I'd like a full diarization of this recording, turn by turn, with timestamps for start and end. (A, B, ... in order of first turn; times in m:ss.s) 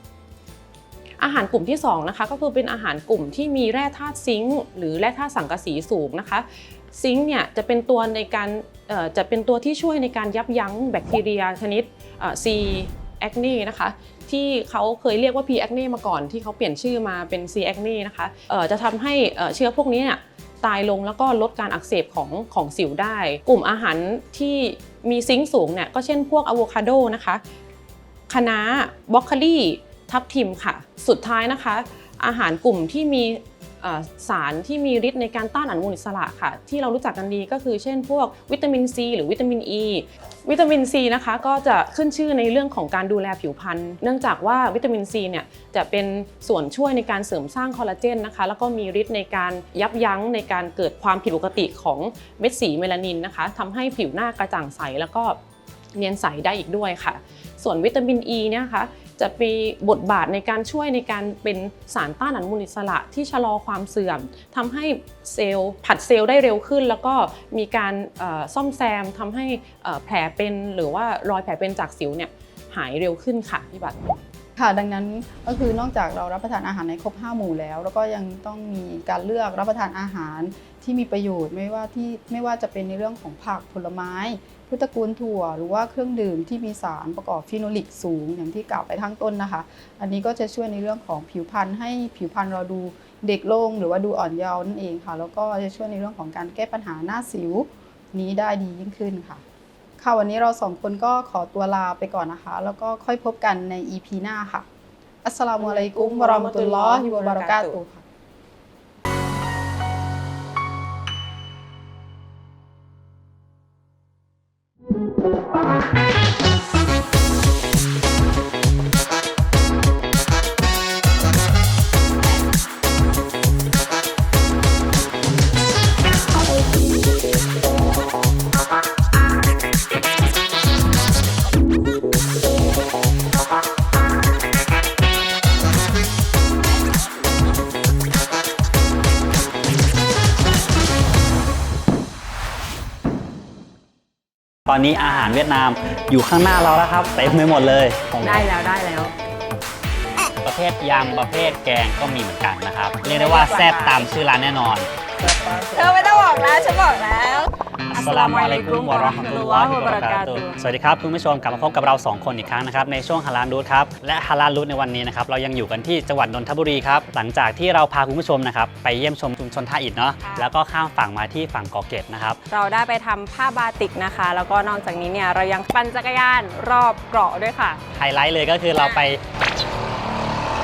0:01.2-0:27.4 A
0:28.3-0:55.4 A
0:56.0-1:14.1 A
1:14.6-1:39.4 B
1:40.0-1:44.7 B
1:45.2-1:48.0 B
1:45.6-1:47.8 A
2:24.7-2:28.5 C
2:25.0-2:25.4 D
2:28.2-2:29.1 D
2:30.4-2:36.2 C
2:33.0-2:34.1 D
2:35.6-2:40.6 D
2:37.9-2:52.4 C
2:50.2-2:50.5 D
2:52.5-2:57.8 D
2:57.9-2:59.2 C
2:58.8-2:59.0 D